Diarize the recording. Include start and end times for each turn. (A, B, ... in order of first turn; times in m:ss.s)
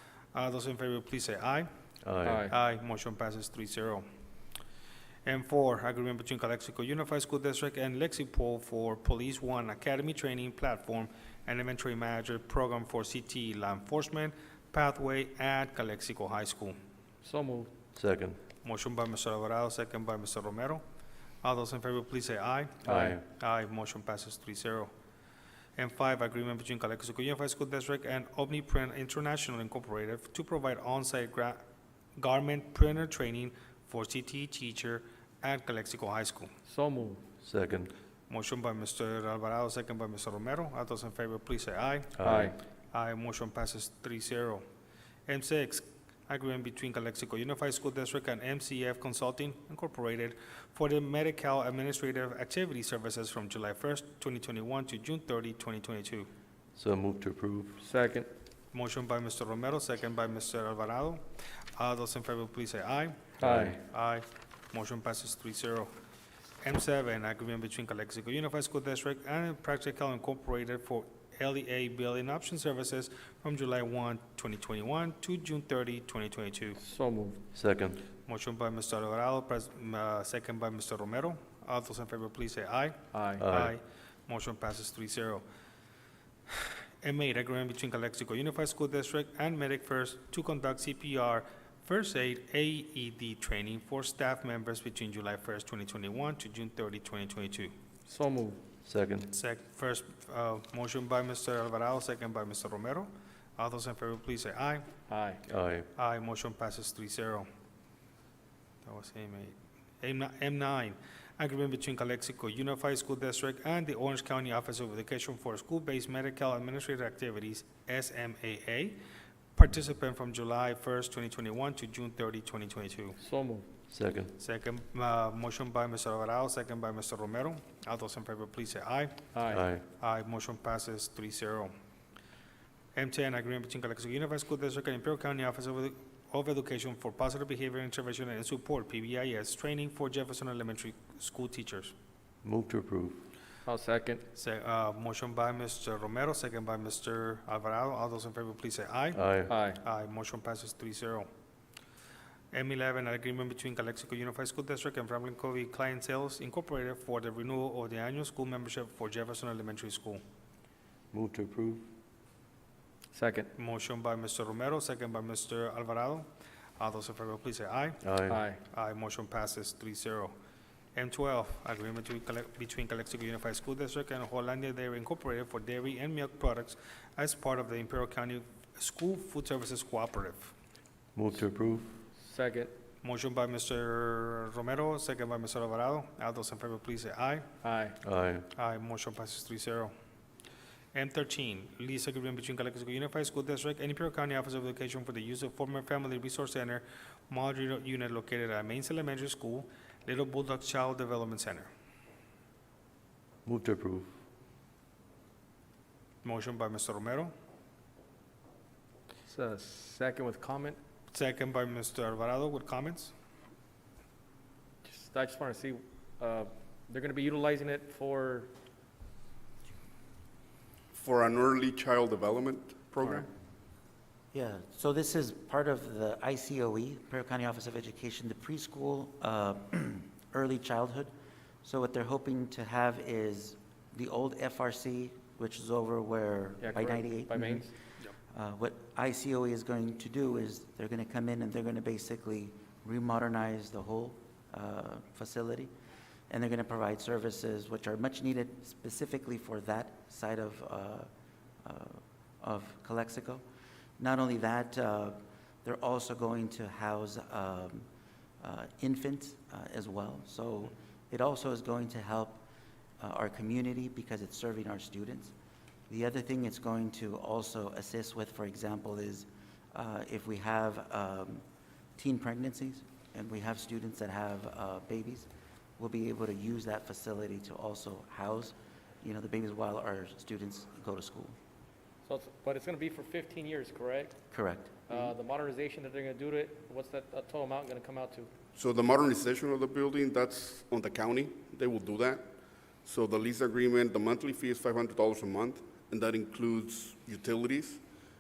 0:00.3-0:01.7 A
0:02.0-0:02.5 B
0:02.2-0:02.5 C
0:02.5-0:04.1 A
0:05.2-0:16.8 A
0:17.2-0:17.7 C
0:17.9-0:18.4 B
0:18.6-0:20.8 A
0:21.4-0:24.9 A
0:22.9-0:23.2 B
0:22.9-0:23.2 C
0:25.8-0:31.6 A
0:32.2-0:36.5 A
0:36.7-0:37.2 C
0:37.4-0:37.9 B
0:38.3-0:44.6 A
0:42.2-0:42.5 B
0:42.2-0:42.6 C
0:45.3-0:56.3 A
0:56.8-0:57.8 B
0:57.8-0:58.3 C
0:58.7-1:01.2 A
1:01.8-1:05.9 A
1:03.4-1:03.8 C
1:03.4-1:03.8 B
1:06.6-1:16.8 A
1:16.8-1:17.4 C
1:17.5-1:18.0 B
1:18.3-1:25.4 A
1:23.1-1:23.4 C
1:23.4-1:23.7 B
1:27.0-1:37.7 A
1:38.1-1:38.6 C
1:38.8-1:39.3 B
1:39.3-1:44.9 A
1:45.1-1:45.4 C
1:45.5-1:45.9 B
1:46.0-1:47.5 A
1:48.8-1:59.0 A
1:59.6-2:03.2 A
2:03.2-2:03.7 C
2:03.9-2:04.4 B
2:04.4-2:09.3 A
2:09.3-2:09.6 C
2:09.5-2:09.8 B
2:10.0-2:11.7 A
2:13.0-2:21.9 A
2:22.4-2:23.2 B
2:23.6-2:24.2 C
2:24.4-2:31.3 A
2:29.1-2:29.5 B
2:29.5-2:29.8 C
2:32.5-2:40.2 A
2:41.1-2:41.9 B
2:43.1-2:43.5 C
2:43.6-2:46.3 A
2:46.8-2:48.0 A
2:48.0-2:48.4 B
2:48.3-2:48.6 C
2:48.6-2:50.3 A
2:51.0-3:00.5 A
3:01.2-3:01.9 B
3:02.2-3:02.7 C
3:03.0-3:07.5 A
3:07.6-3:08.0 C
3:08.0-3:08.5 B
3:08.5-3:09.9 A
3:10.9-3:21.7 A
3:23.4-3:24.1 B
3:26.2-3:27.3 A
3:29.3-3:30.8 C
3:31.1-3:33.1 A
3:34.8-3:38.5 C
3:40.9-3:43.3 D
3:44.3-3:51.1 E
3:51.6-3:57.7 E
3:56.6-3:57.7 C
3:58.3-4:05.7 E
4:06.3-4:11.1 E
4:11.6-4:13.4 E
4:14.0-4:17.9 E
4:18.4-4:22.4 E
4:23.0-4:25.3 E
4:25.9-4:31.4 E
4:32.0-4:41.4 E
4:42.0-4:44.2 C
4:44.3-4:45.0 E
4:44.9-4:48.3 C
4:48.6-4:52.3 D
4:52.8-4:57.8 D